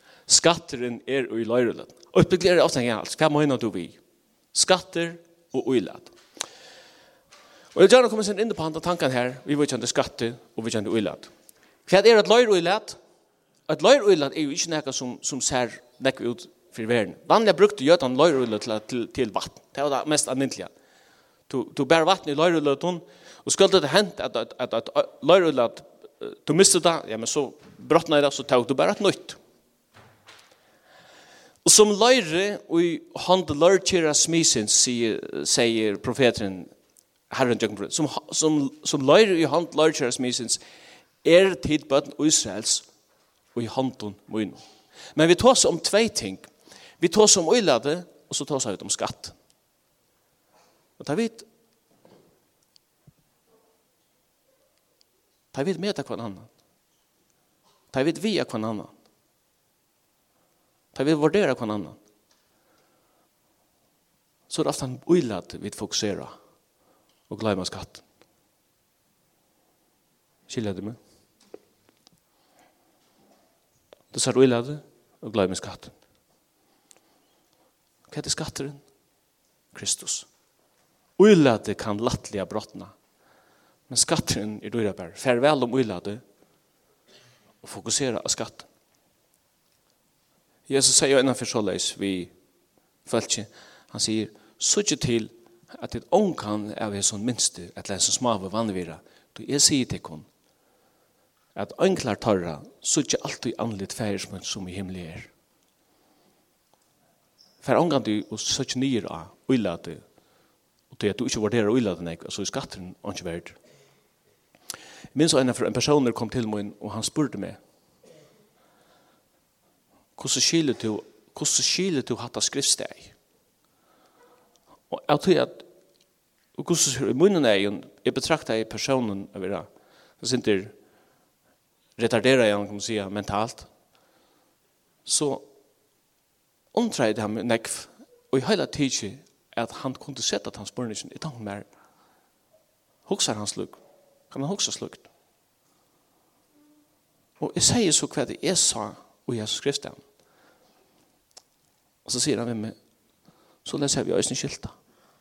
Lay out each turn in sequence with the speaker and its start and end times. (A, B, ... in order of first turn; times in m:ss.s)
0:00.3-0:04.0 A
0:04.5-0:06.1 A
0:07.8-0:11.3 A
0:11.9-0:13.0 A
0:13.7-0:20.7 A
0:21.5-0:29.4 A
0:31.6-0:36.7 A
0:37.3-0:40.6 A
0:41.2-0:42.9 A
0:43.5-0:44.6 A
0:45.1-0:49.4 A
0:51.0-0:51.5 A
0:55.5-0:56.5 A
0:57.9-0:58.9 A
1:00.9-1:02.0 A
1:04.5-1:06.4 A
1:07.3-1:08.0 A
1:10.5-1:11.0 A
1:14.1-1:16.0 A
1:18.1-1:18.8 A
1:19.7-1:20.3 A
1:21.2-1:22.9 A
1:23.9-1:26.2 A
1:27.6-1:28.7 A
1:30.7-1:32.3 A
1:33.0-1:40.3 A
1:41.6-1:45.3 A
1:47.6-1:50.0 A
1:50.9-1:53.6 A
1:55.1-1:57.6 A
2:00.2-2:03.1 A
2:04.9-2:05.6 A
2:06.6-2:09.7 A
2:10.2-2:10.7 A
2:12.0-2:13.7 A
2:15.0-2:15.4 A
2:16.7-2:21.7 A
2:23.1-2:23.8 A
2:24.3-2:25.1 A
2:27.4-2:30.0 A
2:32.0-2:32.8 A
2:33.6-2:34.8 A